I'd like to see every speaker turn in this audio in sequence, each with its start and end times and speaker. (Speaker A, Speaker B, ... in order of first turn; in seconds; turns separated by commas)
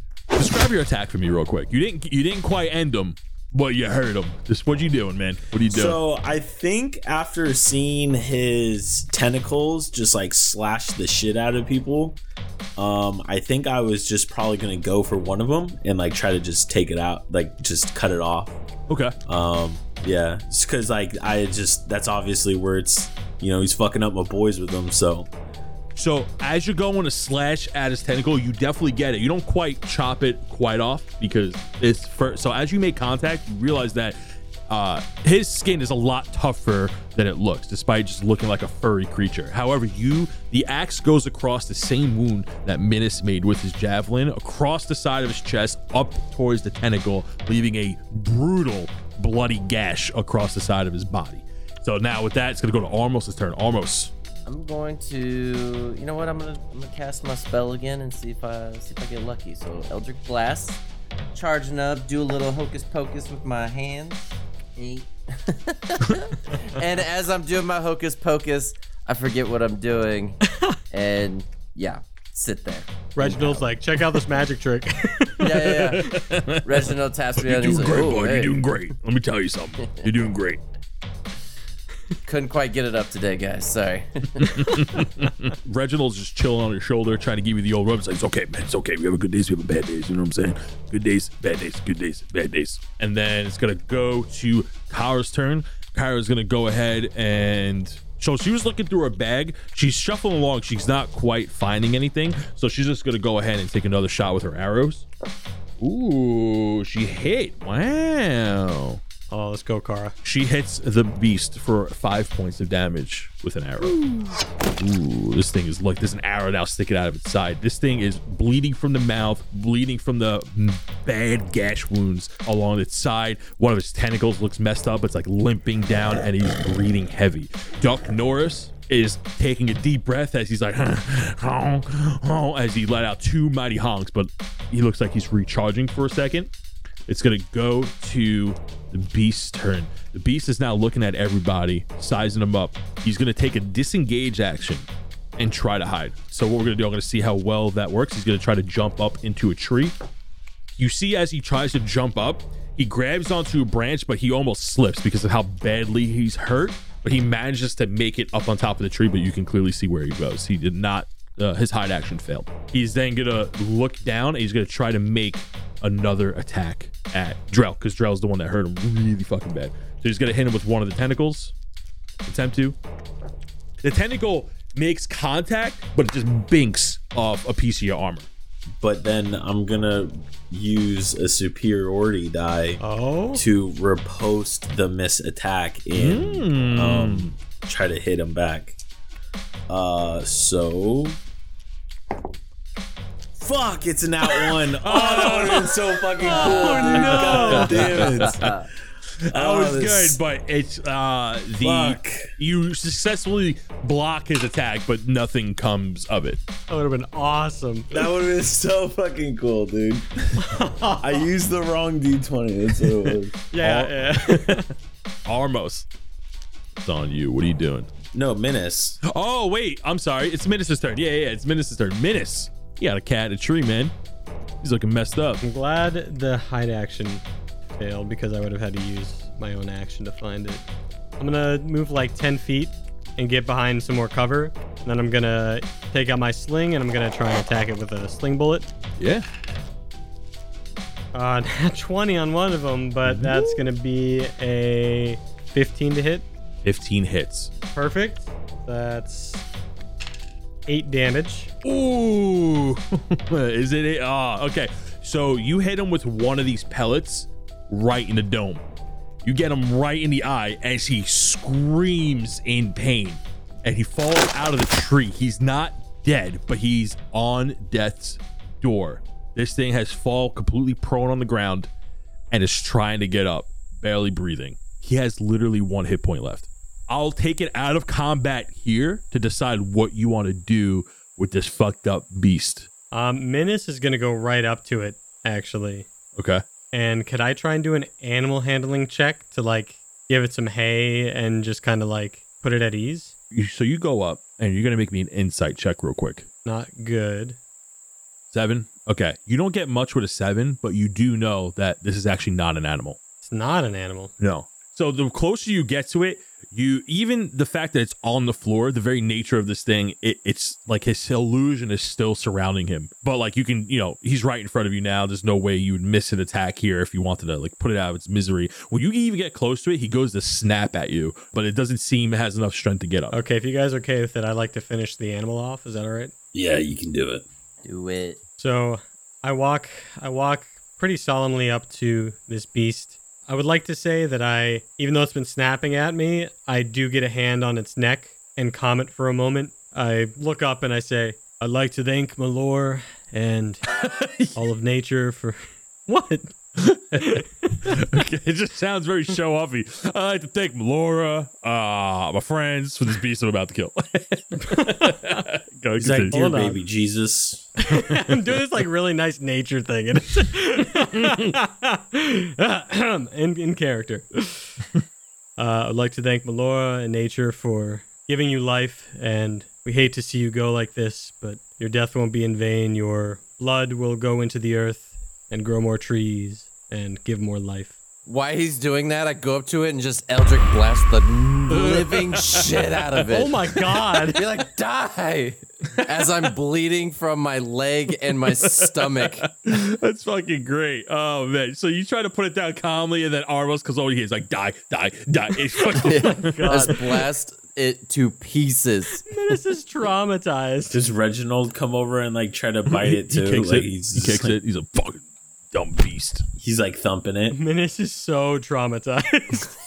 Speaker A: 0.3-6.0, Speaker B: 5.7-12.2, Speaker B: 12.8-18.6, Speaker A: 18.9-19.1, Speaker B: 19.2-25.3, Speaker A: 25.9-54.1, Speaker C: 54.5-60.8, Speaker C: 61.3-70.4, Speaker C: 70.9-73.7, Speaker D: 73.2-76.1, Speaker C: 75.4-78.6, Speaker A: 75.7-80.6, Speaker C: 82.2-84.8, Speaker A: 84.4-105.0, Speaker A: 105.8-109.0, Speaker D: 109.3-110.1, Speaker A: 110.2-114.0, Speaker A: 114.7-136.5, Speaker A: 137.1-149.9, Speaker A: 150.7-171.5, Speaker A: 172.2-172.8, Speaker A: 173.8-178.3, Speaker B: 178.8-182.8, Speaker D: 182.8-183.4, Speaker B: 183.3-188.8, Speaker A: 185.9-187.3, Speaker B: 189.7-191.2, Speaker B: 193.3-198.7, Speaker A: 194.8-198.5, Speaker D: 196.3-198.0, Speaker C: 198.2-198.6, Speaker A: 199.2-206.4, Speaker B: 199.3-200.2, Speaker B: 201.6-202.3, Speaker D: 206.7-208.0, Speaker B: 207.9-213.3, Speaker D: 210.4-211.2, Speaker D: 213.5-214.7, Speaker A: 213.6-214.7, Speaker A: 215.3-215.9, Speaker A: 216.8-217.9, Speaker B: 218.1-219.0, Speaker A: 219.0-223.9, Speaker A: 224.6-225.4, Speaker D: 225.4-227.2, Speaker D: 227.8-230.6, Speaker D: 231.2-238.7, Speaker A: 239.0-239.2, Speaker D: 241.1-246.2, Speaker A: 243.0-243.6, Speaker A: 246.6-247.5, Speaker D: 247.7-249.4, Speaker D: 250.7-251.5, Speaker A: 251.6-258.6, Speaker A: 259.2-271.7, Speaker A: 272.3-282.7, Speaker D: 282.9-285.9, Speaker A: 286.1-286.4, Speaker D: 286.7-293.1, Speaker A: 293.3-296.3, Speaker D: 296.4-297.4, Speaker A: 298.3-303.0, Speaker D: 303.2-304.1, Speaker A: 304.2-323.1, Speaker D: 323.1-326.1, Speaker B: 326.3-327.2, Speaker C: 327.6-328.2, Speaker D: 328.4-343.6, Speaker A: 343.8-344.4, Speaker D: 344.4-346.3, Speaker A: 346.6-356.1, Speaker D: 347.0-347.7, Speaker D: 354.5-355.1, Speaker B: 355.8-357.5, Speaker D: 356.1-356.6, Speaker D: 357.6-364.5, Speaker D: 365.4-377.8, Speaker C: 378.1-383.5, Speaker A: 381.5-382.6, Speaker D: 383.1-384.2, Speaker C: 384.1-389.3, Speaker A: 388.4-396.7, Speaker D: 395.6-397.0, Speaker C: 395.8-399.1, Speaker D: 399.1-400.8, Speaker B: 400.7-404.4, Speaker A: 402.7-406.2, Speaker B: 406.4-407.4, Speaker D: 407.3-409.5